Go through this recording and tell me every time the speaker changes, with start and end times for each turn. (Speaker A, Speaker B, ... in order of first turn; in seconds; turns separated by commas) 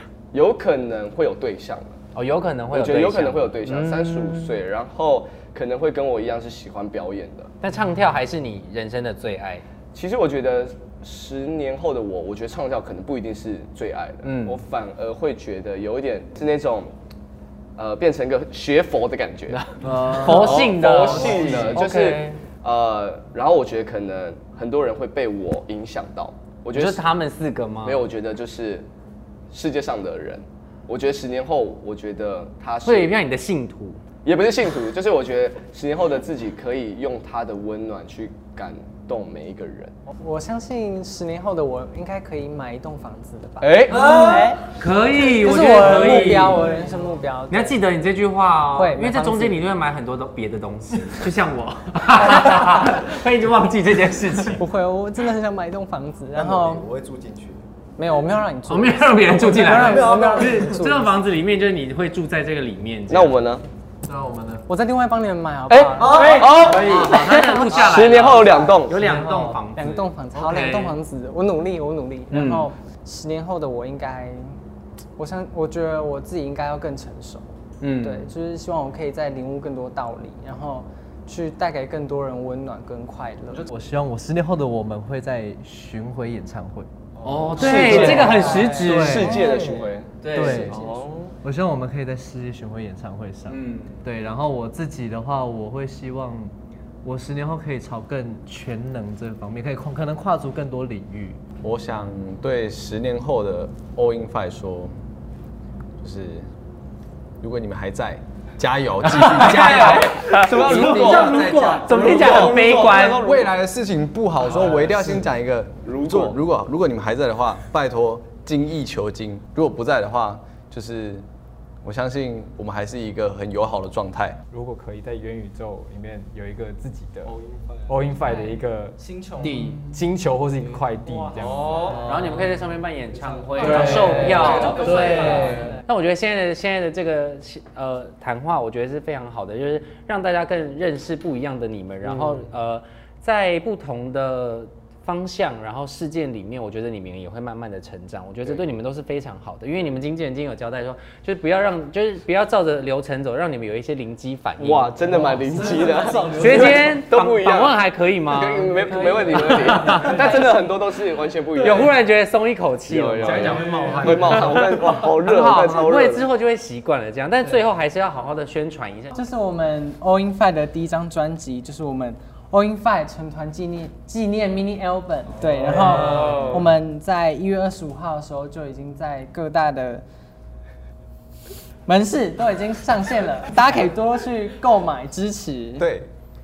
Speaker A: 0.3-1.9, Speaker B: 2.1-4.6, Speaker A: 2.7-7.5, Speaker B: 7.6-9.6, Speaker A: 9.9-16.9, Speaker B: 14.2-14.6, Speaker A: 17.8-19.6, Speaker B: 19.5-22.4, Speaker C: 19.8-21.8, Speaker A: 20.3-27.0, Speaker B: 26.7-28.0, Speaker A: 27.8-28.9, Speaker A: 29.5-33.2, Speaker B: 32.8-34.0, Speaker A: 34.2-39.9, Speaker D: 40.1-44.6, Speaker A: 43.6-44.5, Speaker B: 44.7-46.7, Speaker D: 45.2-47.8, Speaker B: 47.5-54.6, Speaker D: 48.7-49.6, Speaker D: 54.5-56.9, Speaker E: 56.4-57.6, Speaker D: 58.0-61.1, Speaker B: 58.7-63.4, Speaker A: 59.8-60.5, Speaker A: 63.1-63.6, Speaker C: 64.0-64.7, Speaker D: 64.7-67.8, Speaker A: 65.7-67.1, Speaker C: 66.0-66.8, Speaker B: 66.5-71.0, Speaker A: 67.7-69.0, Speaker C: 68.9-69.6, Speaker D: 69.8-74.6, Speaker B: 72.3-72.7, Speaker D: 75.2-83.7, Speaker B: 77.8-78.3, Speaker C: 83.7-86.9, Speaker B: 87.2-89.3, Speaker A: 87.6-91.3, Speaker D: 87.6-89.4, Speaker C: 87.7-89.8, Speaker B: 90.2-90.8, Speaker C: 90.3-101.4, Speaker B: 93.5-94.0, Speaker E: 101.6-105.0, Speaker E: 106.0-106.5, Speaker E: 107.4-112.6, Speaker B: 109.0-113.2, Speaker A: 109.5-113.5, Speaker C: 110.7-111.8, Speaker E: 113.2-121.2, Speaker A: 114.8-115.2, Speaker A: 115.8-116.4, Speaker E: 121.8-124.4, Speaker F: 124.5-127.3, Speaker F: 127.9-129.0, Speaker D: 128.2-129.8, Speaker C: 129.4-130.0, Speaker F: 129.9-131.8, Speaker D: 131.1-131.9, Speaker A: 131.4-132.0, Speaker C: 131.7-132.6, Speaker B: 132.0-154.9, Speaker D: 133.5-135.8, Speaker C: 133.6-135.8, Speaker F: 133.8-134.9, Speaker A: 154.6-161.9, Speaker C: 155.0-157.0, Speaker B: 156.4-158.8, Speaker D: 158.7-160.7, Speaker B: 159.3-160.3, Speaker B: 161.6-169.2, Speaker A: 162.9-166.3, Speaker F: 163.2-164.7, Speaker C: 163.5-164.1, Speaker D: 163.8-164.1, Speaker D: 169.1-180.0, Speaker C: 175.9-176.3, Speaker A: 176.1-176.5, Speaker D: 181.9-185.9, Speaker A: 185.8-186.1